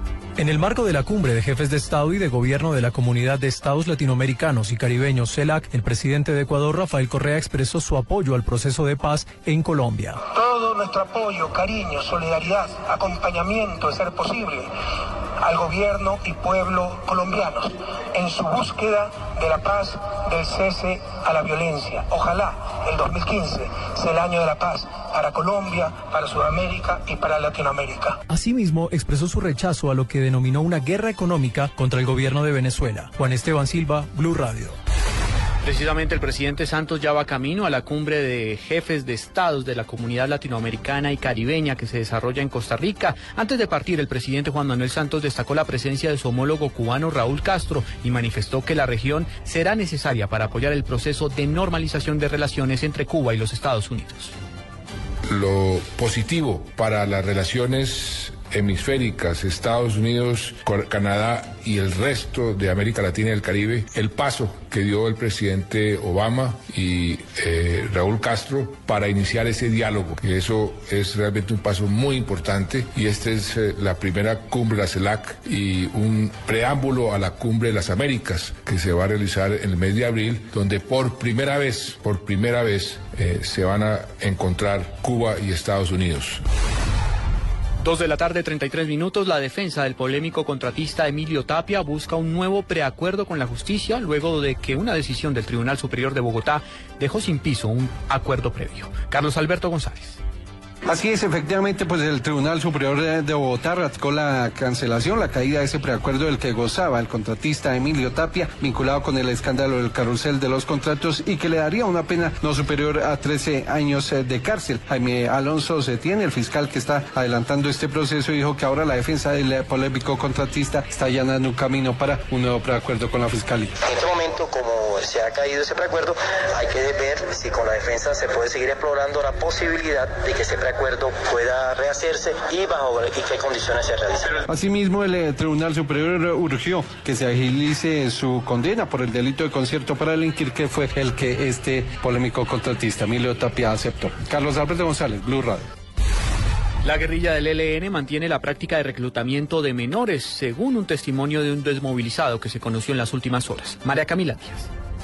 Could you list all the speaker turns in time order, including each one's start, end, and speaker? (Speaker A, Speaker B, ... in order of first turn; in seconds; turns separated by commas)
Speaker A: 0.4-10.2, Speaker B: 10.3-14.7, Speaker B: 15.4-28.2, Speaker A: 28.3-34.8, Speaker C: 35.6-54.3, Speaker D: 55.3-86.4, Speaker C: 87.8-100.2, Speaker E: 100.8-123.7, Speaker F: 123.8-134.4, Speaker E: 134.5-145.6, Speaker C: 146.8-154.7